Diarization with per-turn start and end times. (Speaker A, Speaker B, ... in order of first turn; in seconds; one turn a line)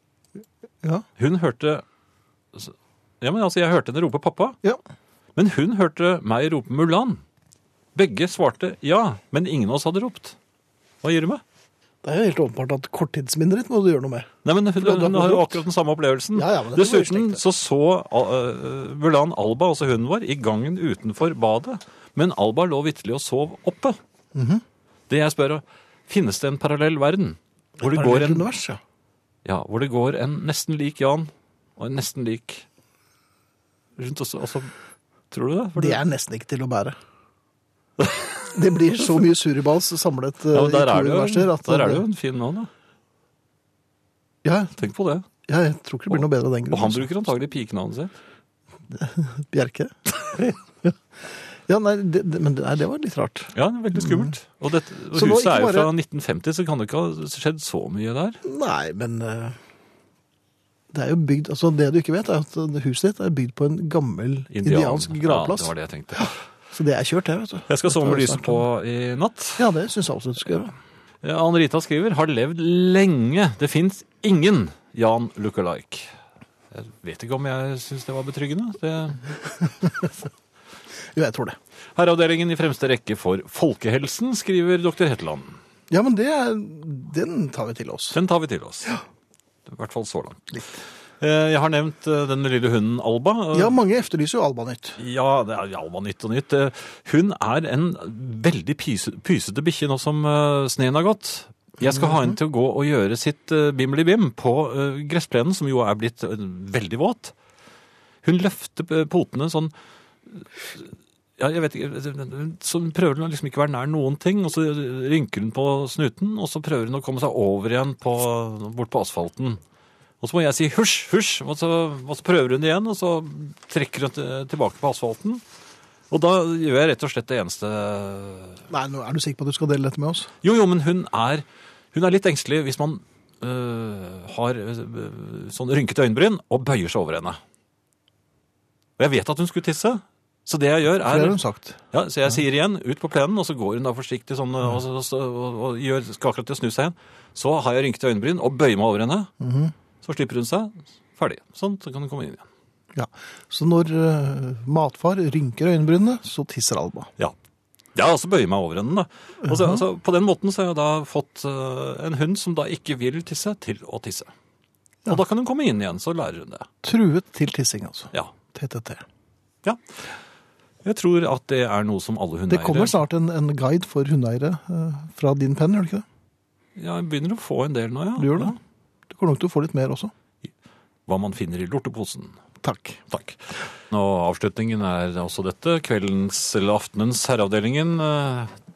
Speaker A: 1.2-1.8
Speaker A: 2.5-4.6
Speaker A: 5.3-7.2
Speaker A: 7.9-10.4
Speaker A: 11.0-11.4
Speaker B: 12.0-15.6
Speaker A: 14.4-24.0
Speaker B: 16.3-17.4
Speaker B: 24.3-24.6
Speaker A: 25.1-28.5
Speaker B: 27.8-28.8
Speaker A: 29.4-32.6
Speaker A: 34.0-34.7
Speaker A: 35.3-36.0
Speaker B: 35.8-37.0
Speaker B: 38.5-42.0
Speaker A: 40.5-42.7
Speaker B: 44.4-44.8
Speaker A: 44.8-45.3
Speaker B: 45.5-47.1
Speaker A: 46.1-48.1
Speaker B: 48.9-50.9
Speaker B: 51.6-54.3
Speaker A: 53.5-58.4
Speaker B: 55.1-55.9
Speaker B: 58.4-59.6
Speaker B: 60.9-68.6
Speaker A: 64.5-66.3
Speaker A: 67.7-69.6
Speaker B: 69.6-70.7
Speaker A: 71.2-76.1
Speaker A: 76.7-79.4
Speaker B: 79.8-80.1
Speaker B: 81.1-81.6
Speaker A: 82.0-85.6
Speaker B: 85.9-88.2
Speaker A: 88.1-88.9
Speaker A: 89.7-90.5
Speaker B: 90.5-90.8
Speaker A: 91.2-93.7
Speaker B: 93.5-95.0
Speaker A: 95.0-107.3
Speaker B: 101.9-102.3
Speaker A: 108.2-109.7
Speaker A: 110.3-110.8
Speaker A: 111.4-119.6
Speaker A: 120.2-125.4
Speaker A: 126.1-128.6
Speaker B: 128.7-130.3
Speaker A: 130.4-137.4
Speaker A: 139.0-141.4
Speaker B: 141.0-141.8
Speaker A: 141.9-149.3
Speaker B: 149.4-149.7
Speaker A: 150.0-152.4
Speaker B: 152.9-157.1
Speaker A: 157.9-164.3
Speaker B: 159.4-159.8
Speaker A: 165.1-166.7
Speaker B: 166.8-169.0
Speaker A: 170.8-173.0
Speaker B: 172.5-176.0
Speaker A: 176.8-178.6
Speaker B: 178.2-178.6
Speaker B: 179.1-180.1
Speaker A: 181.1-182.4
Speaker B: 182.6-183.0
Speaker A: 183.1-188.5